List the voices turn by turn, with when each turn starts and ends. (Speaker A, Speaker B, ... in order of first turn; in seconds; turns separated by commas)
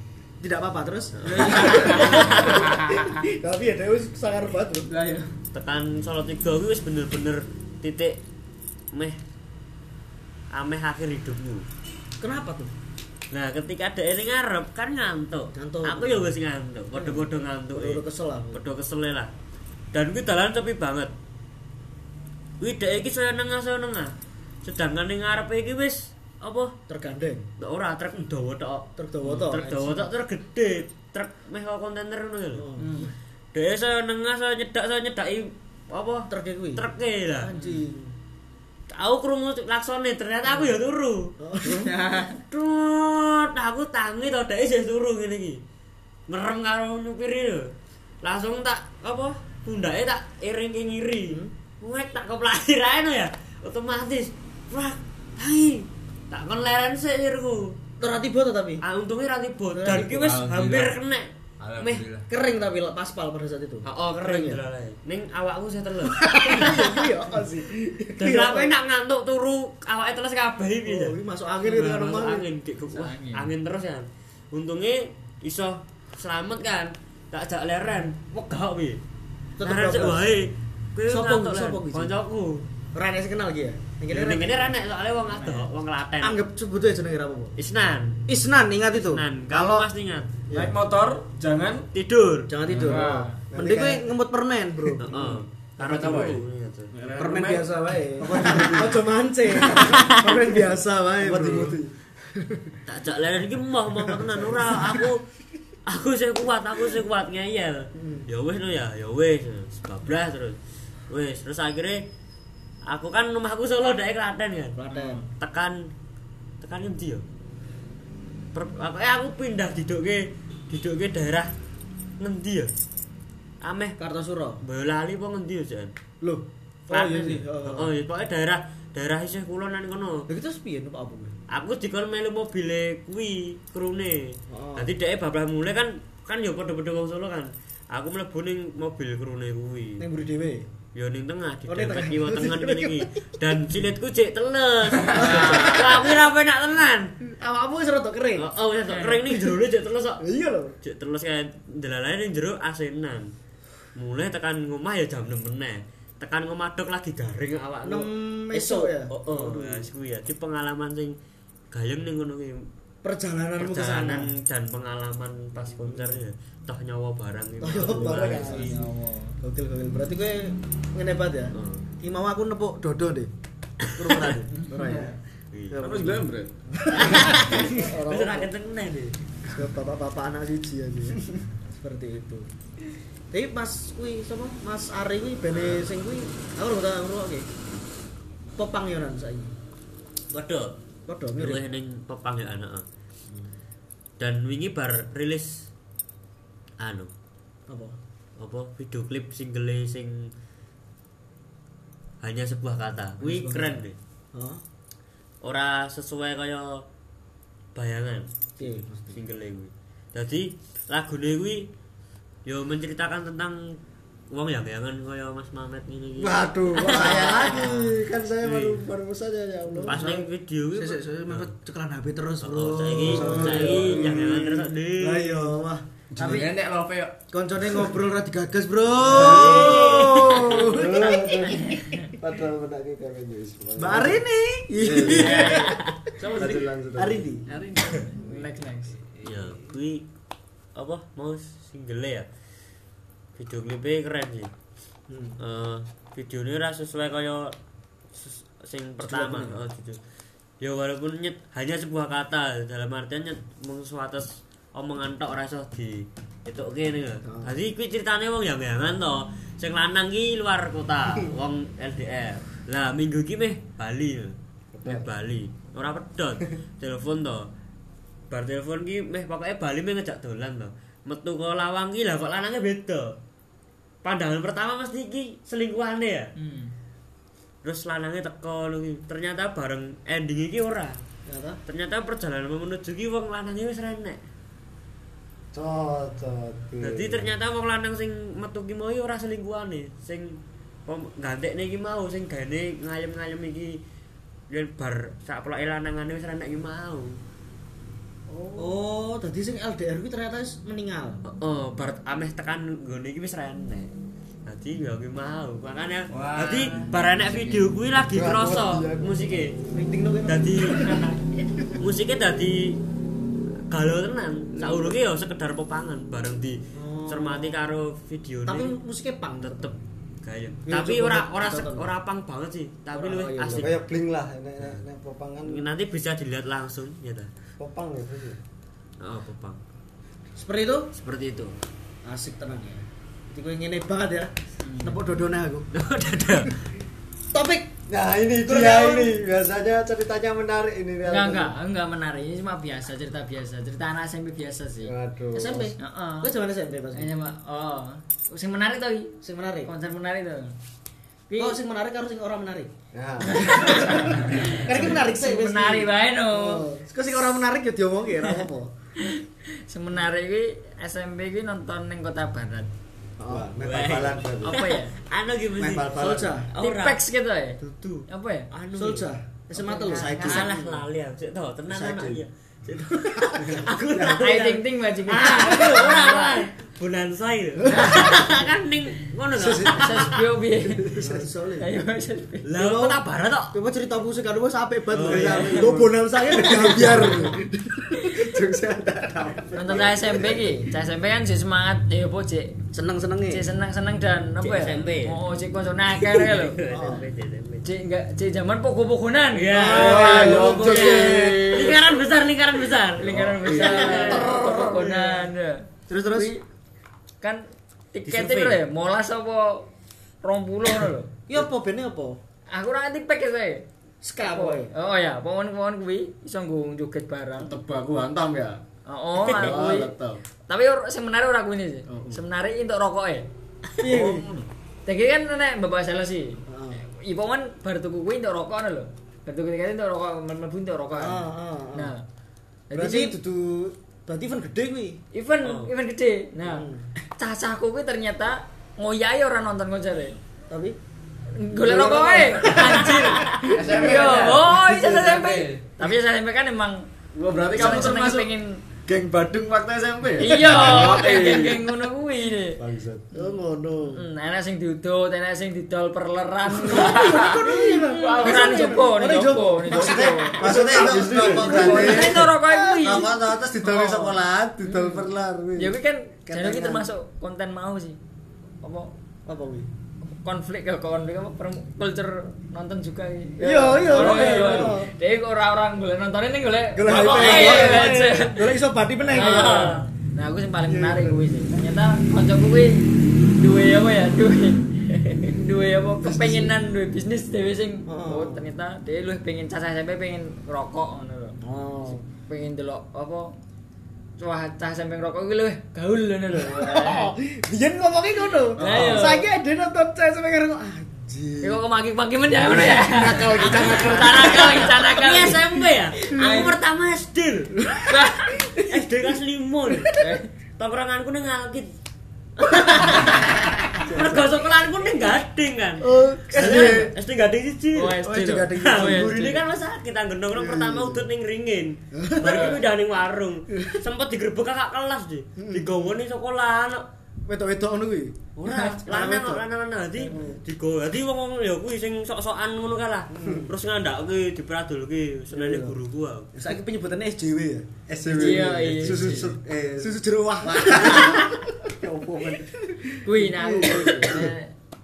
Speaker A: 0.4-4.9, Speaker B: 1.2-2.6, Speaker C: 1.3-3.1, Speaker C: 4.9-5.2, Speaker B: 5.5-8.2, Speaker B: 8.9-9.2, Speaker B: 10.5-11.7, Speaker A: 12.2-12.7, Speaker B: 13.3-19.3, Speaker A: 15.6-16.3, Speaker A: 16.9-18.6, Speaker B: 19.9-21.1, Speaker B: 22.6-26.8, Speaker A: 26.9-27.5, Speaker B: 27.6-32.7, Speaker A: 29.0-30.1, Speaker A: 32.5-33.1, Speaker C: 32.8-33.1, Speaker B: 33.5-37.5, Speaker A: 36.3-36.8, Speaker A: 37.4-38.1, Speaker C: 37.6-37.8, Speaker B: 38.9-41.3, Speaker A: 40.5-40.7, Speaker A: 41.4-42.0, Speaker C: 41.6-42.4, Speaker B: 42.3-45.6, Speaker B: 46.3-47.7, Speaker B: 48.2-57.8, Speaker A: 58.0-58.8, Speaker B: 58.8-62.1, Speaker A: 59.7-60.3, Speaker D: 60.1-61.0, Speaker D: 61.6-62.3, Speaker A: 62.3-64.6, Speaker B: 63.9-67.0, Speaker A: 66.1-68.7, Speaker B: 68.2-79.0, Speaker A: 70.9-72.5, Speaker C: 72.9-73.5, Speaker A: 79.6-80.3, Speaker B: 79.6-82.7, Speaker A: 81.1-82.1, Speaker A: 82.9-84.8, Speaker B: 84.1-86.4, Speaker A: 86.2-87.5, Speaker B: 87.6-88.2, Speaker A: 88.3-89.9, Speaker B: 89.0-90.3, Speaker D: 90.5-91.9, Speaker B: 91.9-92.5, Speaker A: 92.5-95.4, Speaker D: 92.7-93.3, Speaker C: 92.7-93.4, Speaker E: 93.5-94.1, Speaker B: 95.0-96.9, Speaker D: 95.8-97.8, Speaker A: 97.2-102.8, Speaker E: 98.2-99.1, Speaker B: 99.8-100.3, Speaker E: 101.2-101.8, Speaker B: 102.9-105.2, Speaker B: 105.9-110.6, Speaker A: 108.0-108.3, Speaker B: 111.1-112.0, Speaker B: 112.9-115.9, Speaker A: 114.8-115.3, Speaker B: 116.6-117.2, Speaker B: 118.5-121.5, Speaker B: 122.2-122.7, Speaker B: 123.6-124.0, Speaker A: 124.0-124.6, Speaker B: 124.6-125.9, Speaker A: 126.2-127.9, Speaker B: 126.9-130.3, Speaker A: 130.3-131.4, Speaker B: 131.5-140.1, Speaker A: 134.5-134.9, Speaker A: 140.0-140.7, Speaker B: 140.9-147.1, Speaker A: 141.7-143.1, Speaker A: 145.0-146.1, Speaker A: 147.3-148.5, Speaker B: 148.4-150.2, Speaker C: 148.9-149.2, Speaker A: 150.2-150.8, Speaker B: 150.8-153.3, Speaker B: 153.9-161.2, Speaker A: 157.8-159.9, Speaker B: 161.7-162.7, Speaker A: 163.0-164.3, Speaker B: 163.6-168.8, Speaker A: 165.6-166.2, Speaker A: 167.6-173.3, Speaker C: 168.4-169.3, Speaker B: 171.5-171.9, Speaker A: 173.9-175.2, Speaker B: 174.0-174.4, Speaker D: 174.8-175.1, Speaker B: 175.5-175.8, Speaker A: 175.7-178.5, Speaker D: 175.8-176.5, Speaker B: 176.9-179.2, Speaker A: 179.5-182.5, Speaker A: 183.3-187.5, Speaker B: 185.5-185.9, Speaker A: 188.6-189.5, Speaker B: 190.3-190.7, Speaker A: 191.1-191.6, Speaker B: 191.4-192.8, Speaker B: 194.2-195.7, Speaker B: 196.8-197.1, Speaker A: 197.7-198.0, Speaker B: 198.4-200.3, Speaker B: 202.2-204.0, Speaker A: 203.2-203.8, Speaker A: 204.3-204.6, Speaker B: 205.4-206.8, Speaker B: 207.8-211.7, Speaker A: 208.6-209.2, Speaker B: 212.4-213.8, Speaker B: 214.3-218.8, Speaker E: 216.2-220.2, Speaker A: 216.8-217.7, Speaker A: 219.7-226.5, Speaker B: 219.8-221.5, Speaker B: 222.4-225.5, Speaker E: 223.0-224.3, Speaker D: 226.2-227.2, Speaker A: 227.3-231.4, Speaker E: 229.0-234.2, Speaker B: 229.1-230.9, Speaker C: 231.7-232.0, Speaker A: 233.8-235.8, Speaker E: 234.8-235.5, Speaker B: 235.1-235.9, Speaker D: 236.2-236.8, Speaker E: 236.3-237.3, Speaker A: 237.0-237.5, Speaker D: 237.5-238.4, Speaker C: 237.5-238.9, Speaker D: 239.2-239.5, Speaker B: 239.2-240.1, Speaker B: 240.8-242.3, Speaker B: 243.4-244.5, Speaker A: 245.1-245.4, Speaker B: 245.4-247.6, Speaker B: 248.1-250.0, Speaker A: 249.0-249.6, Speaker B: 250.6-267.5, Speaker A: 257.2-257.5, Speaker B: 268.3-273.2, Speaker B: 274.0-276.3, Speaker C: 276.4-276.7, Speaker B: 277.6-281.0, Speaker A: 281.3-281.6, Speaker B: 281.7-284.2, Speaker E: 285.5-287.3, Speaker B: 286.8-293.8, Speaker B: 294.5-297.2, Speaker A: 298.6-301.2, Speaker B: 301.2-303.9, Speaker B: 304.5-309.6, Speaker D: 306.1-307.7, Speaker E: 308.1-309.3, Speaker A: 309.7-311.1, Speaker B: 310.3-311.1, Speaker B: 311.7-312.8, Speaker B: 313.7-318.8, Speaker A: 314.6-315.0, Speaker A: 316.7-317.6, Speaker A: 318.5-319.8, Speaker B: 319.4-323.8, Speaker A: 320.7-321.9, Speaker A: 322.9-323.7, Speaker E: 323.5-325.7, Speaker B: 325.4-327.3, Speaker E: 327.6-328.4, Speaker B: 329.0-329.6, Speaker A: 330.4-330.9, Speaker B: 330.9-331.6, Speaker A: 332.0-335.7, Speaker C: 334.6-335.0, Speaker B: 335.7-336.6, Speaker A: 337.3-337.8, Speaker E: 337.9-341.6, Speaker A: 338.4-339.1, Speaker C: 341.0-345.0, Speaker E: 344.8-345.7, Speaker A: 345.3-347.1, Speaker C: 345.8-346.3, Speaker C: 346.9-350.6, Speaker A: 349.2-349.7, Speaker C: 351.3-351.6, Speaker A: 351.4-352.7, Speaker E: 352.9-354.1, Speaker C: 353.2-356.7, Speaker A: 353.5-358.7, Speaker C: 359.0-362.7, Speaker A: 363.2-363.5, Speaker E: 363.2-364.6, Speaker B: 363.6-367.0, Speaker C: 364.4-364.9, Speaker E: 365.6-366.5, Speaker A: 365.8-366.5, Speaker C: 366.5-368.5, Speaker B: 367.6-369.1, Speaker A: 368.7-370.7, Speaker C: 369.6-370.5, Speaker B: 369.9-380.2, Speaker E: 370.0-370.4, Speaker E: 371.7-372.2, Speaker A: 373.4-374.1, Speaker E: 373.4-373.7, Speaker C: 374.0-376.4, Speaker A: 377.7-378.2, Speaker C: 377.8-378.1, Speaker E: 379.3-381.3, Speaker C: 379.7-381.0, Speaker A: 381.0-381.7, Speaker C: 381.6-382.5, Speaker B: 382.4-383.6, Speaker A: 382.5-383.0, Speaker A: 383.5-387.5, Speaker B: 384.9-385.8, Speaker E: 385.0-390.5, Speaker C: 389.5-392.6, Speaker A: 392.7-393.5, Speaker C: 393.3-396.6, Speaker B: 394.4-395.2, Speaker B: 396.0-397.7, Speaker A: 396.7-397.1, Speaker C: 397.6-400.4, Speaker B: 399.3-404.3, Speaker A: 399.5-401.8, Speaker E: 399.7-401.8, Speaker C: 403.0-406.4, Speaker E: 403.2-403.8, Speaker A: 403.5-405.3, Speaker A: 405.9-406.3, Speaker C: 407.2-409.7, Speaker B: 408.1-408.6, Speaker C: 410.2-411.1, Speaker A: 411.3-412.2, Speaker C: 412.5-413.7, Speaker A: 414.0-414.7, Speaker C: 414.2-417.6, Speaker D: 417.4-418.6, Speaker C: 418.9-419.9, Speaker B: 419.3-419.6, Speaker E: 419.4-419.9, Speaker D: 419.4-420.2, Speaker C: 420.5-423.3, Speaker B: 423.8-424.4, Speaker A: 423.8-424.3, Speaker C: 424.9-431.2, Speaker A: 426.5-426.8, Speaker A: 430.9-431.9, Speaker C: 431.7-432.0, Speaker C: 432.7-433.2, Speaker A: 432.7-435.0, Speaker C: 435.1-436.7, Speaker B: 435.4-435.7, Speaker A: 436.4-436.9, Speaker C: 437.2-440.2, Speaker A: 440.5-440.8, Speaker C: 441.4-446.9, Speaker A: 441.6-443.8, Speaker D: 443.5-445.7, Speaker D: 447.1-448.3, Speaker C: 447.5-448.6, Speaker E: 448.9-451.5, Speaker D: 450.1-451.6, Speaker C: 450.2-452.6, Speaker E: 452.6-453.1, Speaker A: 453.1-454.0, Speaker C: 453.1-468.0, Speaker A: 456.5-463.1, Speaker E: 459.6-465.8, Speaker E: 466.3-466.7, Speaker A: 466.3-466.8, Speaker C: 468.6-468.9, Speaker A: 469.3-469.7, Speaker C: 470.2-478.6, Speaker A: 473.4-474.9, Speaker E: 474.0-474.7, Speaker A: 476.7-479.8, Speaker B: 476.9-478.0, Speaker B: 479.1-479.9, Speaker C: 479.1-491.4, Speaker A: 480.7-481.1, Speaker A: 486.0-486.5, Speaker A: 487.9-488.5, Speaker A: 491.4-492.0, Speaker C: 492.3-493.4, Speaker C: 494.2-497.1, Speaker A: 496.4-501.6, Speaker C: 498.6-499.3, Speaker D: 498.6-498.9, Speaker C: 501.4-506.6, Speaker A: 502.5-504.6, Speaker E: 502.9-504.0, Speaker B: 503.4-507.6, Speaker A: 507.6-508.7, Speaker C: 507.9-508.4, Speaker B: 508.6-510.0, Speaker A: 509.7-510.0, Speaker C: 510.0-510.3, Speaker B: 510.6-511.7, Speaker B: 512.4-526.9, Speaker A: 513.7-514.2, Speaker A: 515.8-516.9, Speaker E: 515.9-516.9, Speaker C: 517.7-519.4, Speaker A: 518.0-519.2, Speaker A: 520.5-520.8, Speaker A: 521.9-522.6, Speaker C: 522.2-522.6, Speaker A: 523.5-523.8, Speaker A: 525.4-525.7, Speaker A: 527.2-529.4, Speaker B: 528.4-536.3, Speaker C: 528.5-528.8, Speaker A: 530.0-530.4, Speaker A: 533.1-533.5, Speaker A: 535.3-535.7, Speaker A: 536.3-537.7, Speaker E: 537.9-541.2, Speaker C: 538.1-539.4, Speaker A: 539.8-541.5, Speaker E: 541.7-542.5, Speaker C: 543.0-544.5, Speaker E: 543.2-544.0, Speaker A: 543.4-544.3